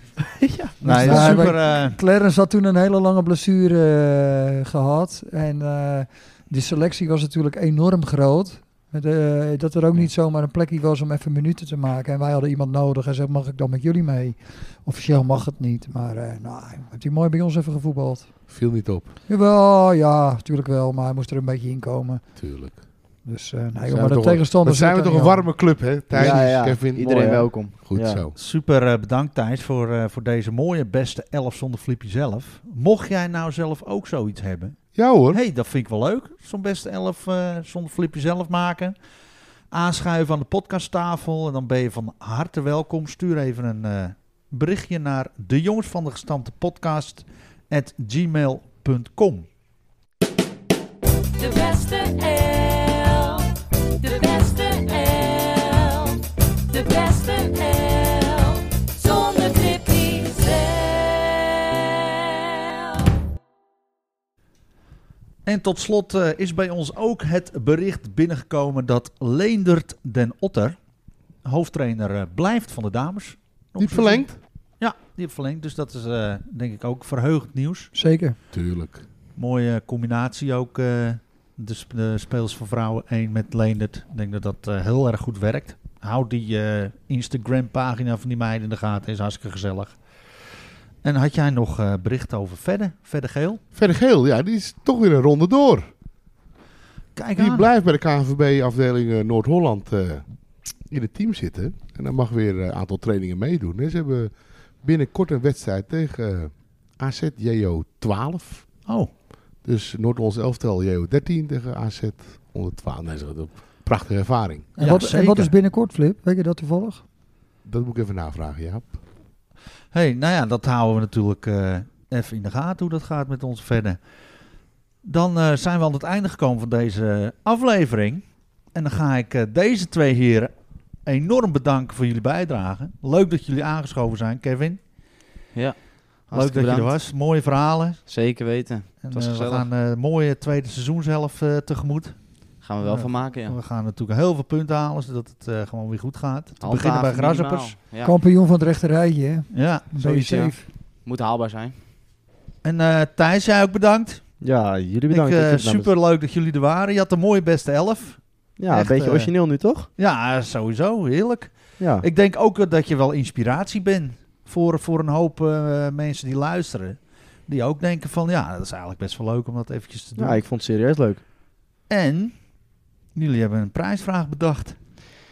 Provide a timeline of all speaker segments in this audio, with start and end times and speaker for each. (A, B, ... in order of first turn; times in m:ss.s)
0:00.5-0:01.5 A
0:00.8-0:02.0 B
0:01.0-0:18.8 C
0:18.5-0:19.1 D
0:19.3-0:25.6 C
0:22.4-0:22.8 D
0:23.8-0:28.4 D
0:26.1-0:28.2 A
0:26.2-0:27.9 E
0:28.4-0:39.0 B
0:34.9-0:35.4 D
0:39.7-0:49.5 B
0:51.4-0:53.5 F
0:54.0-1:01.8 F
1:05.4-1:10.8 B
1:11.4-1:17.9 B
1:13.8-1:14.4 D
1:17.9-1:18.4 C
1:18.5-1:19.0 D
1:19.4-1:30.5 B
1:31.0-1:33.6 B
1:33.7-1:35.9 D
1:37.2-1:37.7 B
1:37.4-1:48.9 D
1:48.9-1:49.1 B
1:49.6-1:54.7 D
1:54.8-1:57.0 C
1:54.8-1:55.5 B
1:57.6-1:59.0 D
1:59.9-2:04.0 B
2:05.0-2:14.8 B
2:15.5-2:17.0 E
2:16.3-2:18.0 B
2:18.0-2:19.7 E
2:19.0-2:27.8 B
2:22.6-2:23.6 E
2:26.6-2:28.1 E
2:28.0-2:30.7 C
2:29.5-2:29.9 B
2:30.0-2:31.8 E
2:32.6-2:34.4 B
2:34.4-2:35.9 A
2:35.1-2:50.4 B
2:38.6-2:39.9 A
2:41.8-2:42.1 A
2:50.2-2:51.2 A
2:51.9-2:52.6 B
2:53.1-2:54.8 B